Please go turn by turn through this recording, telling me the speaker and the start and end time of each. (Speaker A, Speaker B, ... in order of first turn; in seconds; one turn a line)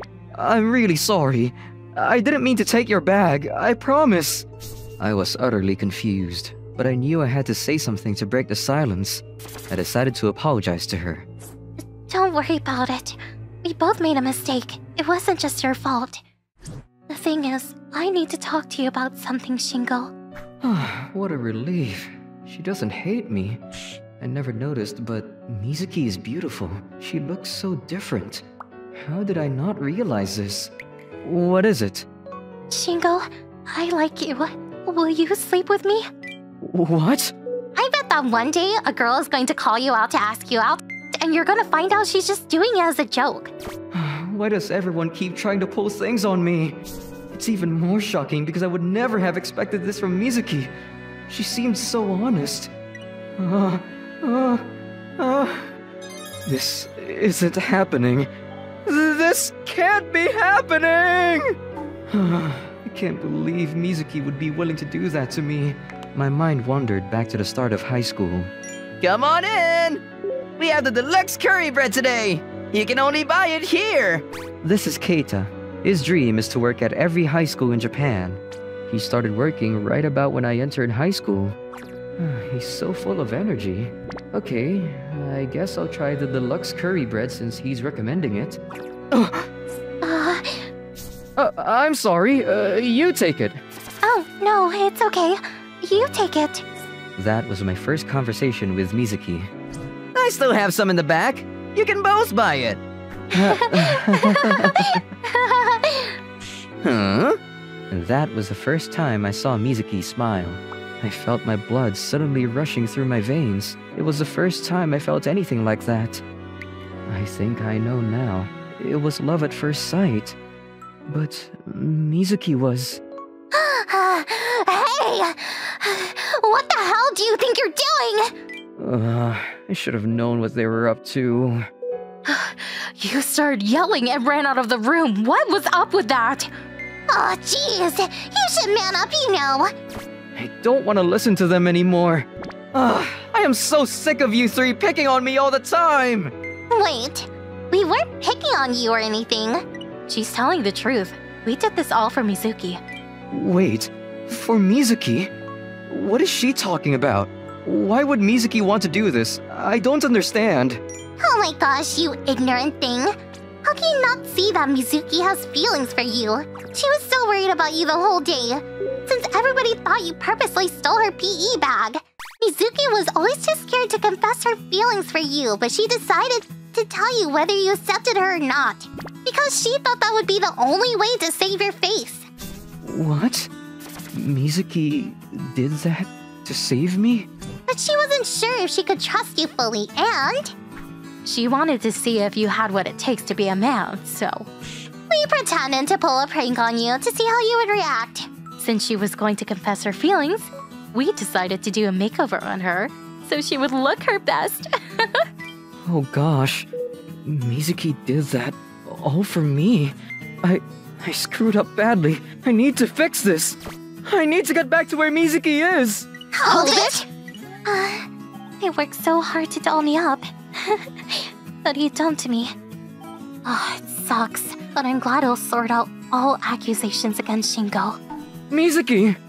Speaker A: 0.3-4.5
Speaker A: 5.0-11.3
Speaker B: 11.8-16.2
Speaker B: 17.1-20.1
Speaker A: 20.6-23.6
Speaker A: 24.2-30.7
Speaker A: 31.2-32.1
Speaker B: 32.7-36.1
Speaker A: 36.6-37.4
Speaker B: 37.8-43.5
Speaker A: 43.9-46.8
Speaker A: 47.3-50.7
Speaker A: 51.3-52.7
Speaker A: 53.4-54.7
Speaker A: 55.2-55.7
Speaker A: 56.5-58.3
Speaker A: 58.9-61.6
Speaker A: 62.1-68.5
Speaker C: 69.0-70.0
Speaker C: 70.6-74.2
Speaker A: 74.6-81.6
Speaker A: 82.2-88.6
Speaker A: 89.1-89.5
Speaker B: 90.0-90.7
Speaker A: 91.4-93.6
Speaker B: 94.0-96.6
Speaker A: 97.2-99.5
Speaker C: 100.1-102.8
Speaker A: 103.3-105.0
Speaker B: 103.5-106.2
Speaker A: 106.8-107.4
Speaker A: 107.9-116.2
Speaker A: 117.1-120.4
Speaker A: 121.1-123.0
Speaker B: 123.5-128.3
Speaker A: 128.8-131.7
Speaker B: 132.3-136.5
Speaker D: 137.2-139.7
Speaker A: 140.3-146.3
Speaker B: 146.7-147.2
Speaker D: 146.8-147.2
Speaker B: 147.7-149.5
Speaker D: 147.9-149.3
Speaker B: 150.1-152.8
Speaker A: 153.3-155.3
Speaker A: 155.9-160.8
Speaker D: 161.2-163.1
Speaker D: 163.7-182.2
Speaker A: 182.8-183.5
Speaker A: 184.1-187.3
Speaker D: 187.7-190.5
Speaker B: 191.2-194.5
Speaker D: 195.2-196.2
Speaker B: 195.2-197.7
Speaker D: 197.2-198.2
Speaker B: 198.6-205.2
Speaker A: 205.8-206.7
Speaker A: 207.2-216.1
Speaker B: 216.4-217.1
Speaker D: 216.4-217.1
Speaker B: 217.7-218.1
Speaker B: 218.6-222.6
Speaker B: 223.4-228.0
Speaker A: 228.5-229.2